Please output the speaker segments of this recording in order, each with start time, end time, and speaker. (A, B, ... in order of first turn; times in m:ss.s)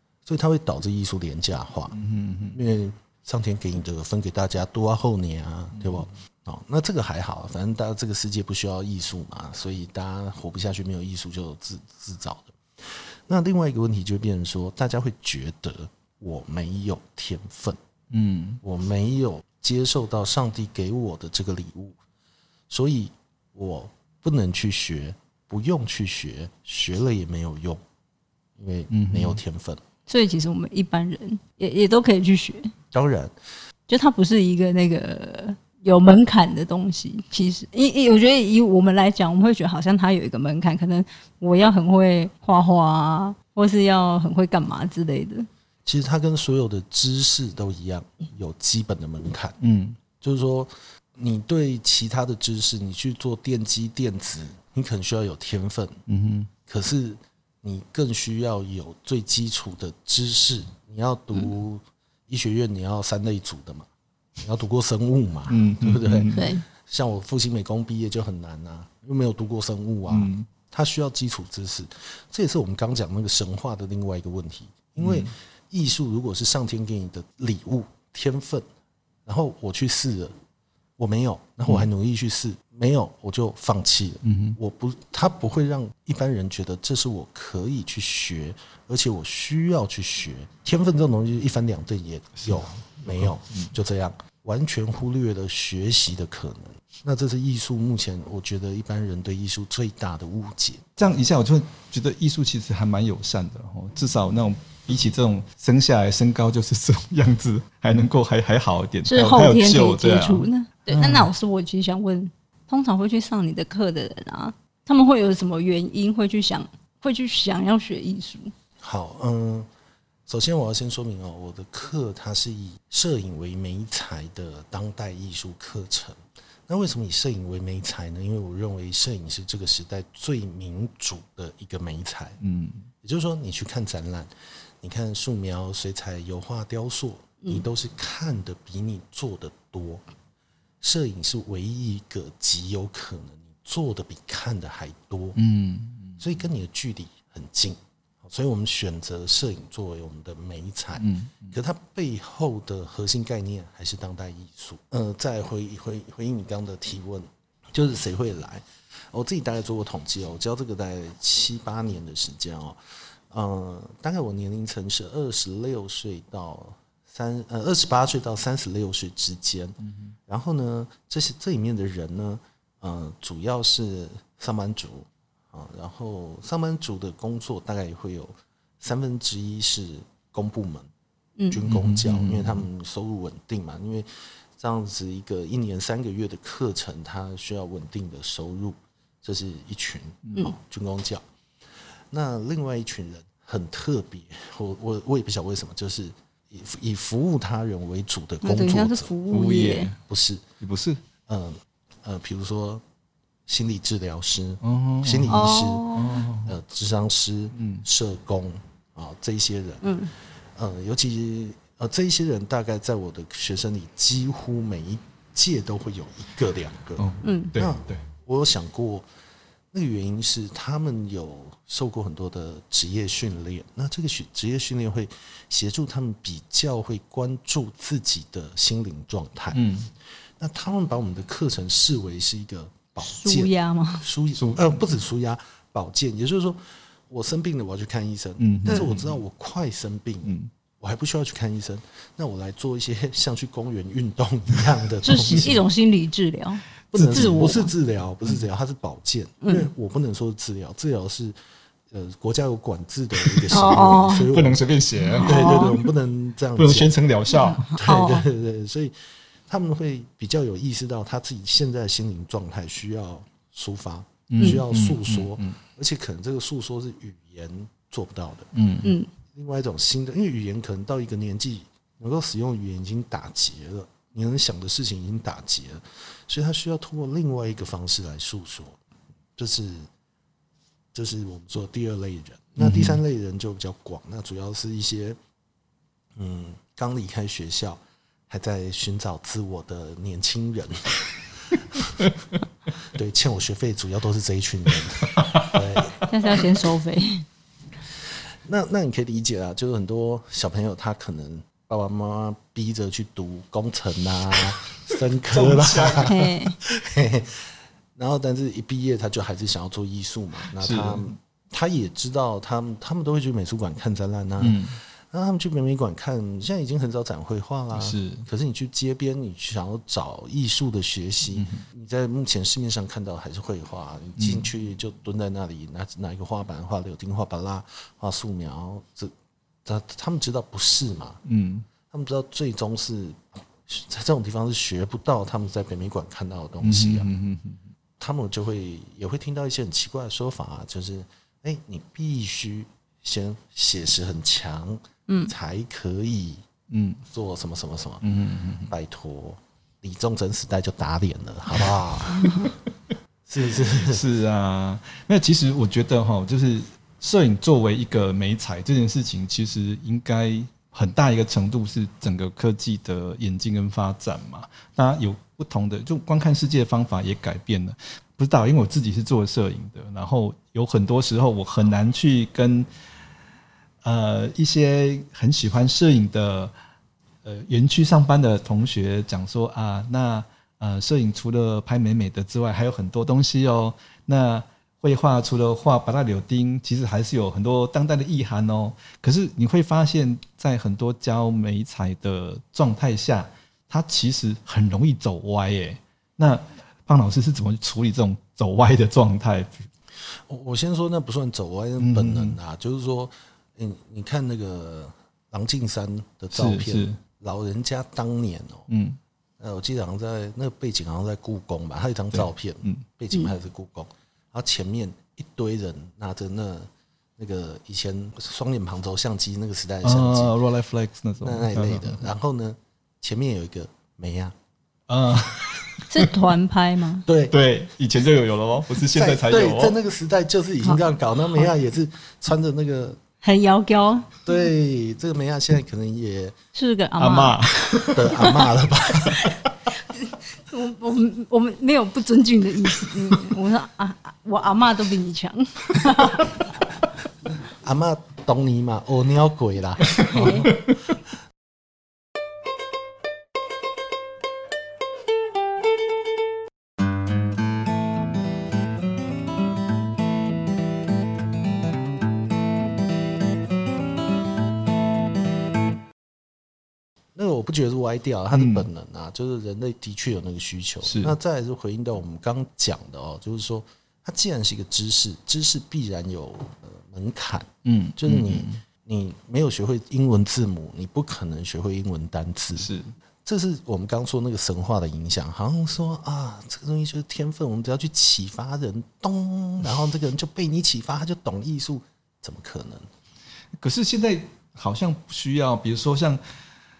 0:00.2-0:02.0 A
0:01.9-0:02.6 B
0:02.5-0:17.8 A
0:05.8-0:06.1 B
0:18.1-0:18.6 B
0:18.6-0:22.0 A
0:22.7-0:27.8 A
0:28.6-0:29.8 A
0:28.9-0:29.4 B
0:30.1-0:32.7 C
0:32.9-0:33.3 A
0:33.9-0:45.5 C
0:45.8-0:49.6 A
0:49.6-0:50.0 B
0:50.2-0:56.0 A
0:56.1-0:56.5 B
0:56.6-1:03.9 A
1:04.4-1:18.6 A
1:05.5-1:06.5 B
1:06.3-1:06.6 C
1:10.1-1:10.5 B
1:15.0-1:15.3 B
1:19.2-1:20.4 A
1:21.0-1:40.9 A
1:24.2-1:24.6 B
1:41.0-1:51.3 B
1:49.0-1:58.5 C
1:58.8-1:59.7 A
2:00.3-2:12.4 A
2:12.4-2:12.9 B
2:13.0-2:20.0 A
2:20.8-2:25.4 A
2:25.4-2:26.2 B
2:26.2-2:42.8 A
2:31.0-2:31.5 B
2:43.3-3:00.9 A
2:49.8-2:50.1 B
3:01.5-3:11.2 A
3:01.6-3:02.6 B
3:12.1-3:19.1 A
3:18.4-3:19.9 C
3:19.3-3:20.0 B
3:20.0-3:20.4 A
3:20.6-3:21.0 B
3:21.3-3:22.8 A
3:23.5-3:25.9 A
3:24.6-3:26.6 B
3:25.3-3:26.2 C
3:26.4-3:29.9 A
3:27.5-3:27.8 B
3:29.8-3:30.1 C
3:30.6-3:39.0 A
3:37.0-3:38.0 B
3:37.2-3:37.5 C
3:39.7-3:49.6 A
3:49.5-3:49.9 B
3:50.4-4:05.6 A
3:53.0-3:54.0 C
3:54.3-3:54.7 B
3:58.4-3:59.2 B
4:00.2-4:00.5 B
4:05.0-4:07.7 C
4:06.9-4:11.4 A
4:06.9-4:07.5 B
4:09.4-4:09.7 C
4:11.9-4:14.6 A
4:13.5-4:14.3 C
4:14.2-4:15.9 B
4:15.0-4:15.8 C
4:15.2-4:16.9 A
4:16.6-4:17.8 B
4:17.3-4:18.2 C
4:17.7-4:18.9 A
4:19.5-4:28.5 A
4:24.3-4:25.6 B
4:28.5-4:28.9 B
4:28.8-4:29.1 C
4:29.3-4:38.8 A
4:39.4-4:39.9 A
4:40.9-4:45.2 A
4:42.6-4:43.0 B
4:46.2-4:52.1 A
4:52.8-4:56.0 A
4:55.2-4:55.5 B
4:56.1-4:57.2 C
4:58.4-5:29.1 A
5:05.3-5:06.1 B
5:06.0-5:06.6 C
5:10.6-5:11.1 B
5:14.4-5:14.8 B
5:17.7-5:18.2 B
5:21.3-5:21.6 B
5:24.2-5:24.5 B
5:29.6-5:31.2 A
5:31.2-5:31.7 B
5:31.9-5:37.1 A
5:36.6-5:37.6 B
5:38.0-5:46.4 A
5:46.7-5:47.0 B
5:47.1-5:48.0 A
5:48.0-5:48.7 B
5:48.6-5:52.5 A
5:52.2-5:52.5 C
5:53.2-5:54.0 A
5:53.8-6:12.7 B
6:13.8-6:16.5 B
6:17.2-6:39.6 B
6:40.2-6:48.7 A
6:41.8-6:42.4 B
6:46.3-6:47.0 B
6:48.7-6:49.0 B
6:49.4-7:00.3 A
6:52.1-6:52.8 B
6:59.8-7:02.0 B
7:01.2-7:04.3 A
7:04.9-7:06.1 B
7:05.9-7:07.0 C
7:07.0-7:07.4 A
7:07.3-7:09.8 B
7:08.9-7:13.0 A
7:13.2-7:14.2 C
7:14.2-7:16.4 A
7:16.5-7:17.4 C
7:17.0-7:18.5 B
7:17.9-7:19.4 A
7:19.9-7:26.4 C
7:27.6-7:30.5 A
7:30.0-7:30.5 C
7:30.2-7:30.7 B
7:47.1-8:02.7 A
7:48.3-7:48.7 B
7:50.8-7:51.1 B
7:57.6-7:58.6 B
8:02.6-8:02.9 B
8:03.2-8:12.9 A
8:13.6-8:16.2 B